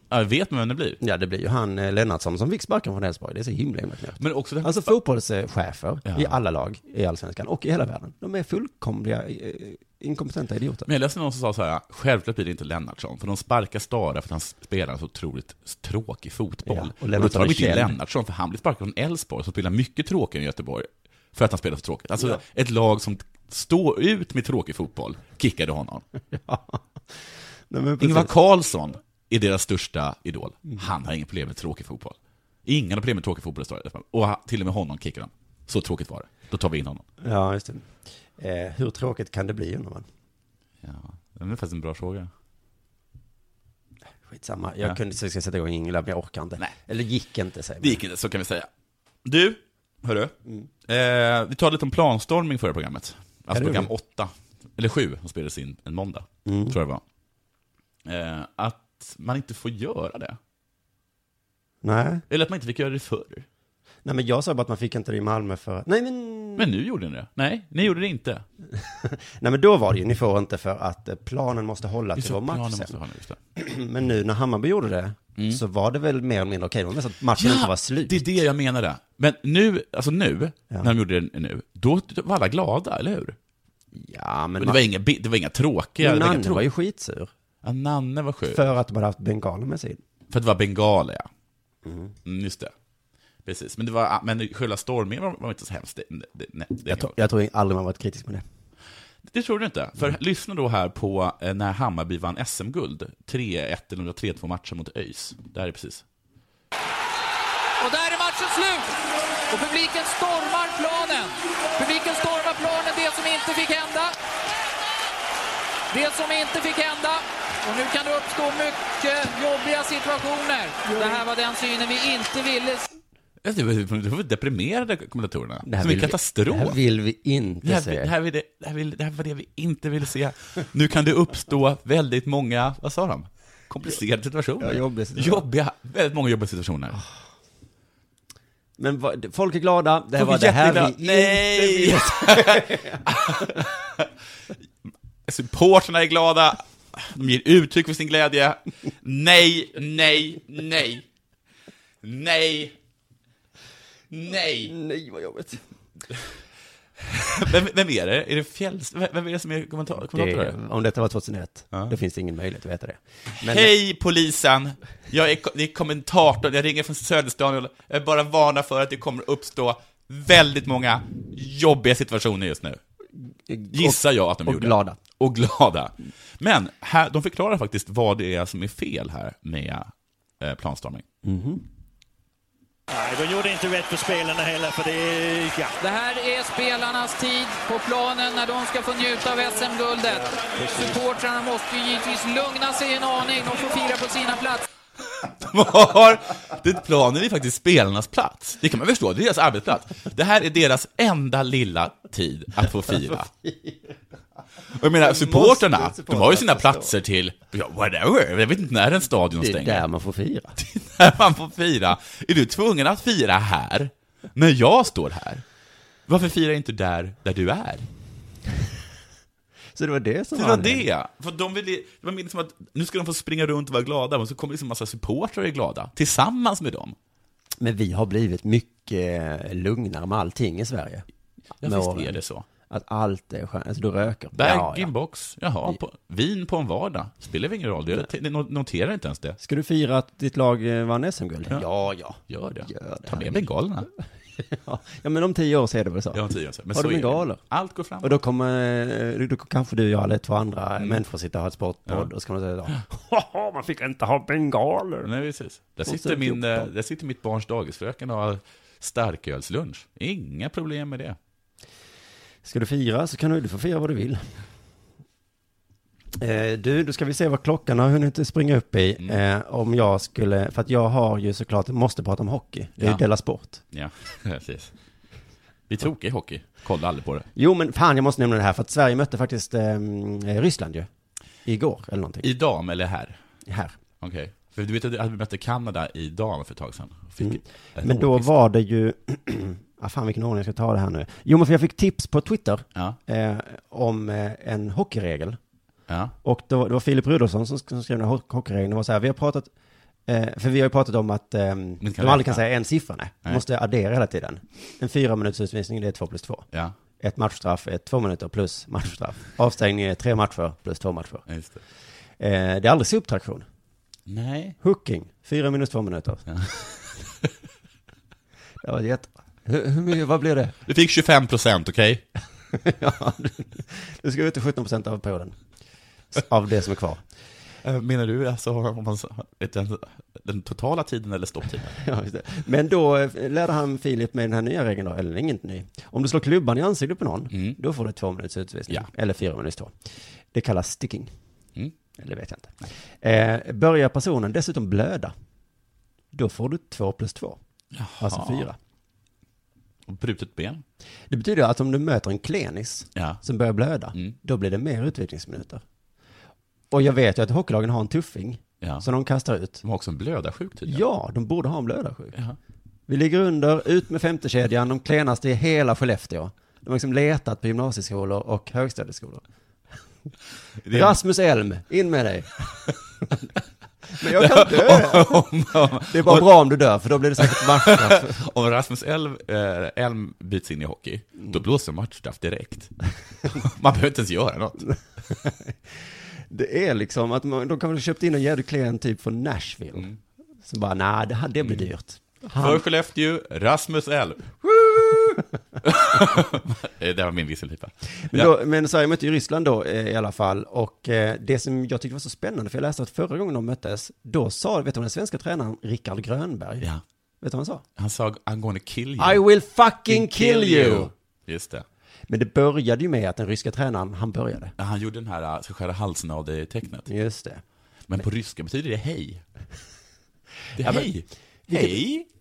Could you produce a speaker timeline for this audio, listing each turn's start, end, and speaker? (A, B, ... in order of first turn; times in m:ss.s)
0:00.1-0:01.0 A
0:01.0-0:10.9 B
0:04.2-0:04.9 A
0:06.1-0:06.3 A
0:10.9-0:26.0 A
0:16.7-0:18.0 B
0:26.3-0:26.8 B
0:27.7-0:28.3 B
0:28.0-0:37.0 A
0:37.2-0:40.0 B
0:40.8-0:42.3 A
0:44.2-0:48.0 B
0:47.8-0:48.7 A
0:49.3-0:50.3 A
0:50.9-0:57.0 A
0:53.5-0:53.9 B
0:56.5-0:56.8 B
0:58.1-1:00.4 A
1:01.8-1:02.2 B
1:02.3-1:03.5 A
1:04.0-1:06.7 B
1:06.6-1:08.4 A
1:08.8-1:13.0 B
1:12.2-1:13.4 A
1:13.6-1:18.2 B
1:15.4-1:15.6 A
1:17.4-1:23.4 A
1:23.9-1:24.8 B
1:24.6-1:26.6 A
1:26.0-1:27.3 B
1:27.6-1:28.6 A
1:28.5-1:30.0 B
1:30.3-1:31.3 A
1:31.8-1:32.1 B
1:32.3-1:32.7 A
1:33.4-1:37.2 A
1:36.9-1:38.4 B
1:39.3-1:46.0 A
1:47.8-1:48.9 C
1:49.5-1:54.2 C
1:55.9-2:02.9 C
2:03.4-2:06.8 A
2:05.6-2:08.1 B
2:07.6-2:17.0 A
2:14.6-2:15.5 B
2:18.8-2:23.6 B
2:20.2-2:24.0 A
2:25.3-2:31.0 A
2:32.0-2:32.8 A
2:34.1-2:34.7 A
2:34.7-2:35.6 B
2:37.0-2:40.6 A
2:40.0-2:43.7 B
2:43.4-2:52.8 A
2:53.5-2:55.0 B
2:53.7-2:59.9 A
3:00.4-3:01.0 A
3:01.2-3:01.6 B
3:02.9-3:05.8 D
3:05.8-3:14.6 C
3:10.6-3:11.0 D
3:15.4-3:23.3 A
3:23.1-3:23.9 B
3:24.8-3:29.8 A
3:24.9-3:26.9 B
3:29.4-3:30.5 B
3:30.6-3:35.4 A
3:36.1-3:37.8 A
3:39.8-3:40.9 B
3:40.3-3:47.0 A
3:47.6-3:51.0 B
3:51.6-3:52.2 B
3:51.6-3:52.4 A
3:52.7-3:54.9 B
3:54.4-3:59.4 A
3:59.4-4:03.4 B
4:02.3-4:03.9 A
4:04.4-4:06.2 B
4:06.1-4:08.1 A
4:06.7-4:07.4 B
4:08.0-4:15.1 B
4:15.0-4:21.2 A
4:15.8-4:16.7 B
4:22.4-4:24.3 B
4:26.2-4:33.6 B
4:33.7-4:34.7 A
4:35.7-4:37.3 A
4:37.4-4:40.9 B
4:41.4-4:42.3 B
4:42.2-4:43.2 A
4:43.5-4:43.7 B
4:44.0-4:48.3 A
4:47.2-4:55.4 B
4:56.2-4:59.5 B
5:00.1-5:06.4 B
5:01.8-5:02.4 A
5:07.0-5:11.2 B
5:11.3-5:11.6 A
5:12.2-5:13.5 B
5:14.1-5:14.6 A
5:14.6-5:16.2 B
5:16.3-5:16.9 A
5:18.6-5:20.6 B
5:20.7-5:22.0 A
5:22.5-5:25.4 B
5:26.1-5:27.0 B
5:27.6-5:31.8 A
5:31.8-5:39.7 B
5:37.3-5:37.6 A
5:40.3-5:41.1 B
5:42.0-5:45.1 B
5:46.1-5:47.4 B
5:47.7-5:48.5 A
5:48.0-5:48.6 B
5:49.9-5:50.6 A
5:51.1-5:55.6 B
5:56.7-5:59.6 B
5:58.6-5:58.9 A
5:59.6-6:00.8 A
6:00.7-6:02.2 B
6:02.9-6:09.2 B
6:10.6-6:11.0 A
6:10.7-6:12.6 B
6:14.0-6:15.3 B
6:14.0-6:16.4 A
6:15.8-6:18.2 B
6:17.2-6:22.7 A
6:23.3-6:24.7 A
6:25.1-6:25.6 B
6:26.3-6:29.9 B
6:30.4-6:32.6 B
6:31.4-6:31.7 A
6:32.4-6:34.2 A
6:34.5-6:35.2 B
6:35.6-6:38.3 A
6:38.1-6:46.7 B
6:47.2-6:47.6 B
6:47.8-6:49.2 A
6:49.0-6:50.9 B
6:49.9-6:51.6 A
6:52.1-6:54.5 B
6:54.6-6:56.9 A
6:56.9-6:57.4 B
6:57.9-6:59.2 A
7:00.6-7:02.1 A
7:00.6-7:00.9 B
7:01.5-7:01.8 B